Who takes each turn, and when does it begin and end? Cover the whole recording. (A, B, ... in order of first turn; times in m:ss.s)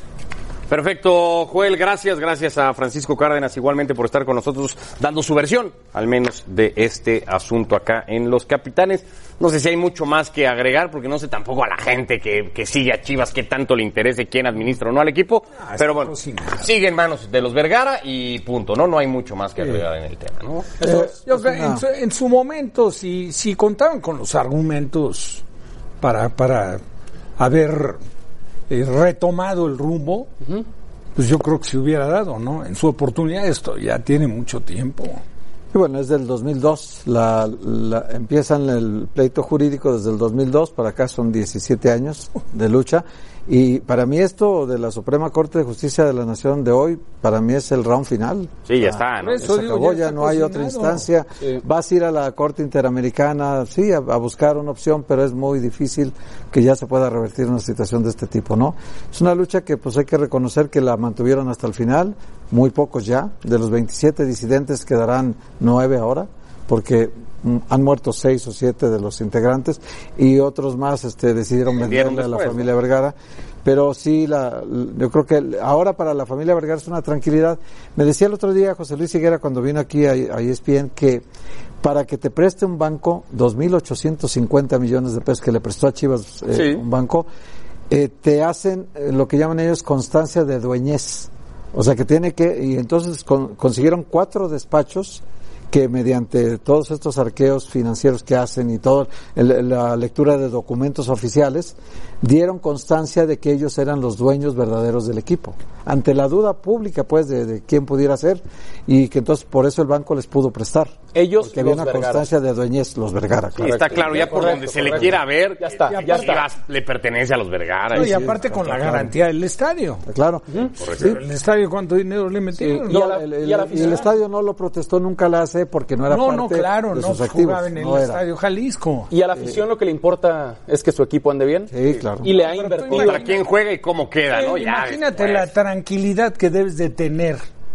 0:00.7-0:20.7 A
0:15.6-0:16.7 B
0:20.8-0:25.4 B
0:20.8-0:21.8 C
0:26.0-0:26.8 B
0:27.4-0:28.0 B
0:28.7-0:30.3 B
0:31.2-0:35.2 B
0:35.7-1:21.2 C
0:48.7-0:49.5 A
0:49.2-0:51.1 B
1:11.7-1:12.7 A
1:21.8-1:27.3 C
1:26.5-1:26.8 A
1:27.9-1:54.0 C
1:51.1-1:52.3 D
1:53.6-1:56.5 D
1:53.6-1:58.2 A
1:55.9-1:56.4 B
1:57.9-2:00.0 B
1:57.9-1:59.1 C
2:00.0-2:01.2 C
2:00.8-2:01.1 A
2:01.0-2:03.2 B
2:02.6-2:08.2 C
2:02.9-2:04.1 D
2:03.7-2:04.1 B
2:06.1-2:09.1 B
2:09.1-2:13.4 D
2:11.7-2:12.3 C
2:12.2-2:13.4 B
2:12.9-2:15.5 A
2:14.3-2:17.4 B